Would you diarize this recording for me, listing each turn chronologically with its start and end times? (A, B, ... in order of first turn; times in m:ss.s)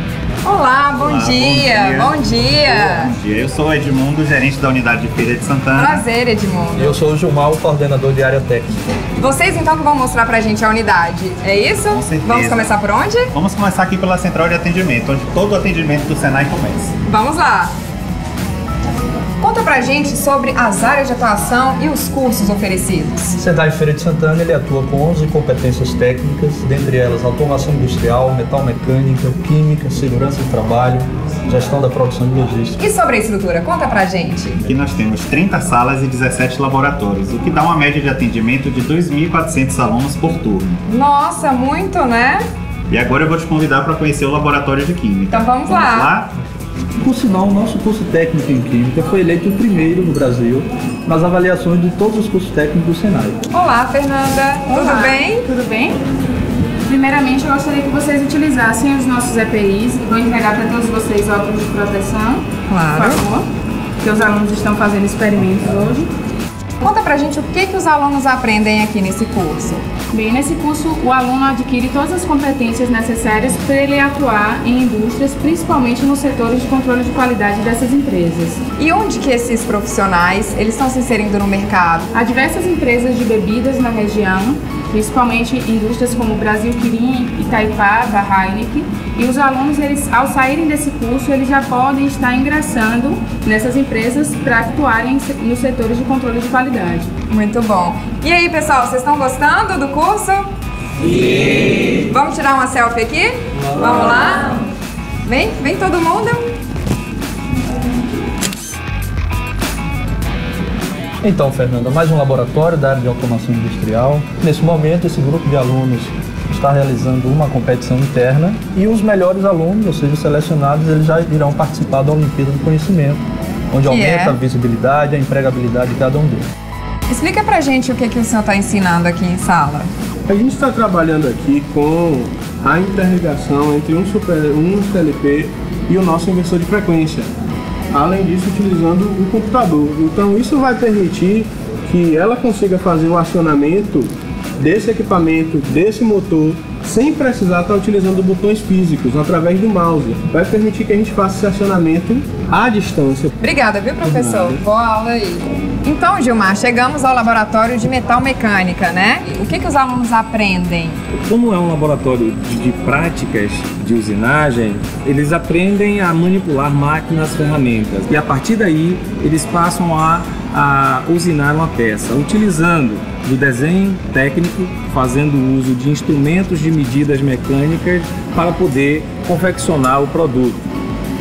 0:00.4-0:03.1 A
0:01.0-0:06.0 B
0:05.7-0:07.0 A
0:06.8-0:08.9 C
0:09.2-0:13.3 A
0:11.9-0:12.7 B
0:13.3-0:17.0 B
0:17.1-0:17.7 A
0:19.4-0:23.4 A
0:23.3-0:32.8 C
0:32.8-0:34.6 A
0:34.6-0:40.8 B
0:40.9-0:42.4 A
0:42.9-0:46.3 B
0:45.3-0:46.1 A
0:47.0-0:53.4 C
0:53.5-0:55.5 A
0:54.7-0:56.0 D
0:56.9-1:03.5 D
1:02.7-1:03.2 A
1:04.0-1:06.1 D
1:06.8-1:09.8 A
1:10.1-1:18.6 D
1:18.8-1:22.1 A
1:22.1-1:37.1 D
1:37.3-1:40.5 A
1:42.1-1:44.6 A
1:45.2-1:46.4 A
1:51.2-2:06.4 C
2:03.8-2:04.4 A
2:07.1-2:09.9 A
2:10.3-2:17.3 E
2:17.9-2:33.3 E
2:33.4-2:41.0 A
2:34.0-2:34.6 E
2:41.2-3:00.6 F